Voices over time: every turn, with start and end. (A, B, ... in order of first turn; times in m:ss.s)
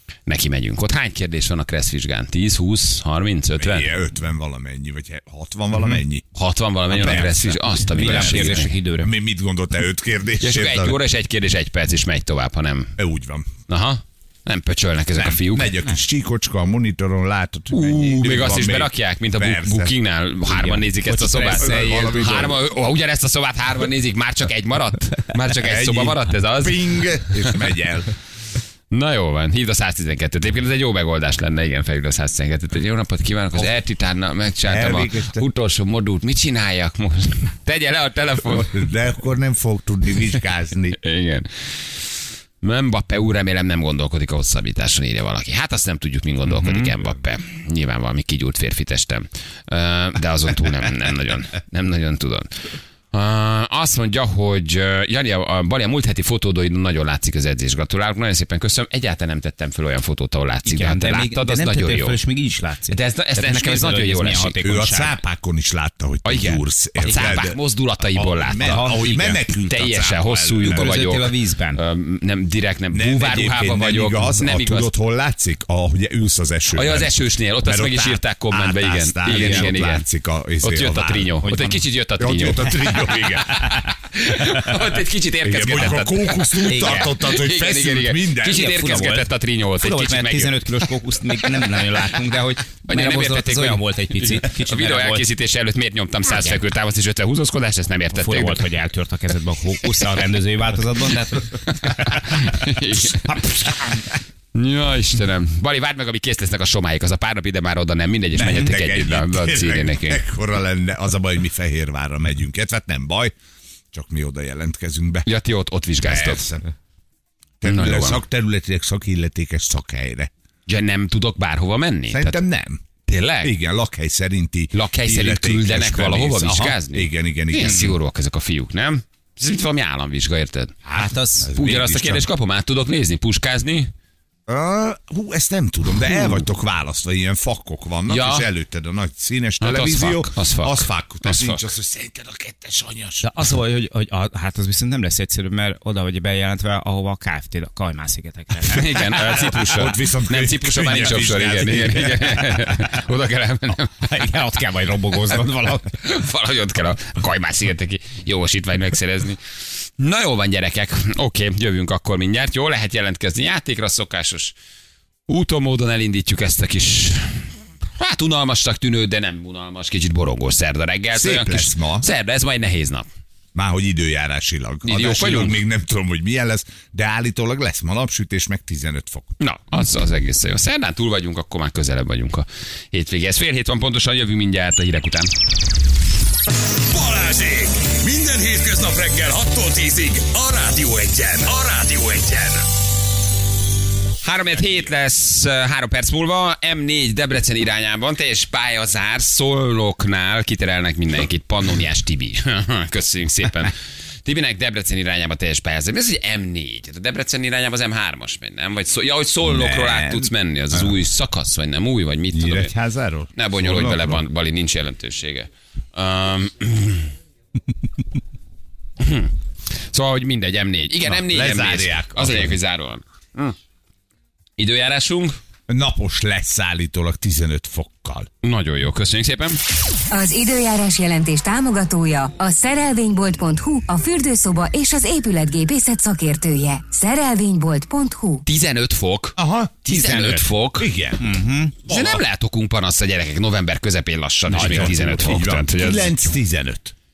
0:00.3-0:03.9 A
0:03.6-0:06.2 B
0:06.3-0:08.7 A
0:06.9-0:11.0 B
0:07.0-0:07.2 C
0:07.9-0:09.1 C
0:10.4-0:12.9 A
0:13.0-0:13.5 B
0:13.7-0:15.7 A
0:15.2-0:19.9 B
0:17.7-0:27.6 A
0:20.5-0:22.2 C
0:21.4-0:22.6 B
0:25.6-0:28.1 B
0:28.9-0:38.7 A
0:34.6-0:35.4 B
0:38.5-0:41.0 B
0:41.0-0:42.0 A
0:42.6-1:02.2 A
1:00.6-1:05.2 C
1:02.9-1:04.6 A
1:04.6-1:07.6 B
1:06.2-1:14.9 A
1:07.0-1:07.3 C
1:08.1-1:10.9 B
1:08.6-1:09.3 C
1:10.6-1:11.8 C
1:12.9-1:21.4 B
1:16.7-1:20.0 A
1:19.3-1:19.7 C
1:20.6-1:30.7 A
1:21.4-1:21.8 C
1:22.2-1:23.8 B
1:25.4-1:28.8 B
1:26.6-1:27.2 C
1:28.5-1:29.3 C
1:29.8-1:35.2 C
1:32.9-1:38.6 A
1:36.3-1:36.6 C
1:38.1-1:42.2 C
1:41.8-1:43.8 A
1:44.5-1:50.2 A
1:48.3-1:53.3 B
1:53.9-1:55.3 B
1:55.2-1:56.5 A
1:56.0-1:56.6 B
1:57.6-2:00.3 B
1:57.6-1:58.2 A
2:00.7-2:02.4 A
2:02.1-2:02.8 B
2:03.1-2:03.5 A
2:03.4-2:07.9 B
2:04.7-2:10.8 A
2:10.8-2:11.5 C
2:11.4-2:12.3 B
2:11.5-2:13.9 A
2:14.5-2:23.3 B
2:18.1-2:18.5 A
2:19.6-2:21.6 A
2:23.2-2:29.0 C
2:28.7-2:33.9 A
2:29.3-2:32.5 B
2:34.0-2:35.9 C
2:36.0-2:39.4 A
2:40.0-2:44.5 A
2:45.3-2:47.5 A
2:48.0-2:53.0 A
2:51.1-2:52.0 B
2:53.5-2:59.3 B
2:54.8-2:55.6 A
2:59.4-3:05.3 A
3:06.8-3:12.6 D
3:14.2-3:23.7 A
3:24.2-3:32.7 A
3:29.4-3:30.9 B
3:32.3-3:34.2 B
3:33.4-3:37.1 A
3:39.0-3:39.3 A
3:39.9-3:43.5 A
3:41.0-3:42.6 B
3:44.6-3:45.4 A
3:45.7-3:48.3 B
3:48.4-3:49.6 A
3:50.1-3:58.4 E
3:58.4-4:00.9 A
3:59.4-3:59.8 B
3:59.9-4:00.5 C
4:00.8-4:02.2 B
4:01.2-4:01.8 C
4:01.9-4:06.3 A
4:04.5-4:06.9 B